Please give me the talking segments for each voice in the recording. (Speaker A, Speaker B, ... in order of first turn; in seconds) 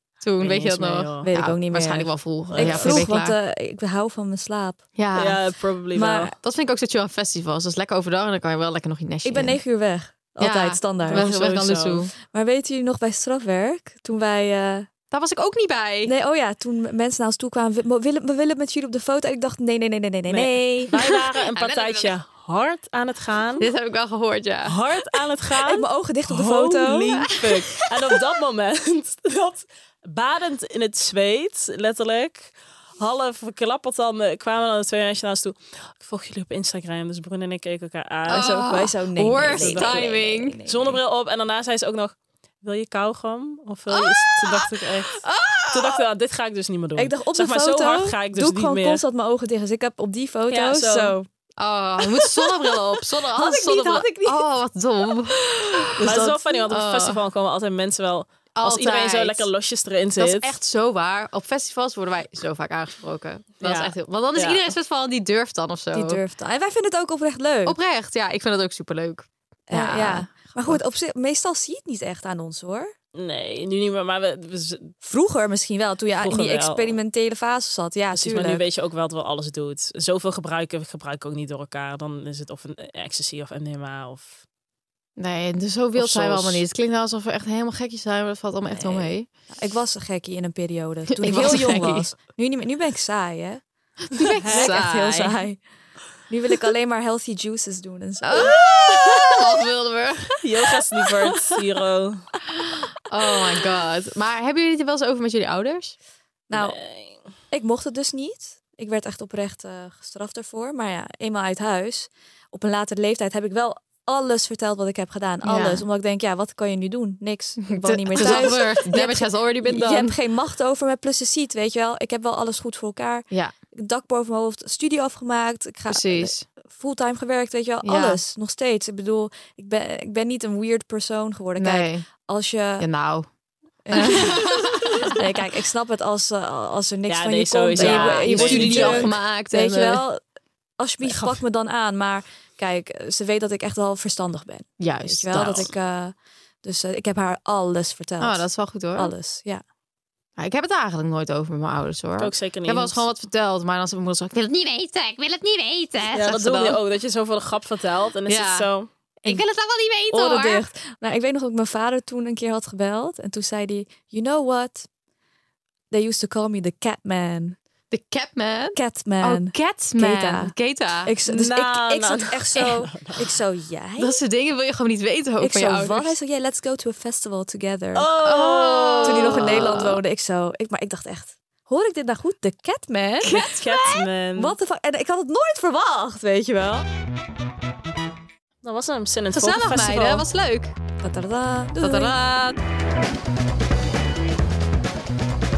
Speaker A: 0.2-3.4, 5.0-5.4, 6.4-9.6, 10.4-12.1, 15.1-16.1, 21.1-22.2, 23.6-24.8, 38.3-40.6, 43.9-46.0, 51.6-57.2, 58.6-59.5, 60.2-66.2, 67.7-70.8, 85.2-89.3, 91.1-92.1, 94.1-95.4, 98.2-100.4, 103.1-106.0, 115.4-115.8, 117.6-120.2, 125.9-126.5, 127.8-128.2, 131.6-132.1, 132.8-133.3, 133.9-135.2, 137.8-140.0, 144.8-145.7, 148.2-149.1, 150.4-156.8, 158.3-158.7, 159.2-160.6, 167.9-171.1, 174.0-176.1, 178.2-180.0, 183.2-184.1, 189.3-190.7, 191.8-192.6
Speaker B: 0.4-1.3, 2.5-3.1, 5.1-6.3, 11.1-12.1, 20.3-23.7, 24.6-38.6, 39.5-40.0, 40.7-49.0, 50.5-51.2, 56.0-60.5, 63.6-64.6, 73.2-74.9, 76.2-77.0, 78.1-84.4, 86.0-86.6, 94.4-94.8, 100.4-102.3, 106.5-107.2, 118.2-118.4, 137.1-139.1, 141.0-141.4, 152.2-153.0, 156.1-158.9, 171.3-173.3, 177.9-179.7, 183.4-184.6, 188.6-190.2
Speaker C: 1.2-4.8, 6.0-6.3, 9.2-11.3, 12.3-14.9, 16.1-20.9, 25.6-27.3, 38.3-41.0, 47.0-51.3, 53.3-54.5, 55.3-56.3, 65.9-67.8, 69.7-72.9, 75.0-78.6, 89.5-93.6, 94.2-95.6, 96.3-99.3, 106.5-106.8, 107.5-132.9, 133.8-140.2, 140.8-148.4, 149.0-149.6, 160.1-164.9, 165.9-167.6, 168.8-170.5, 171.1-174.2, 175.4-178.1, 179.0-183.4, 184.4-186.9, 191.0-192.1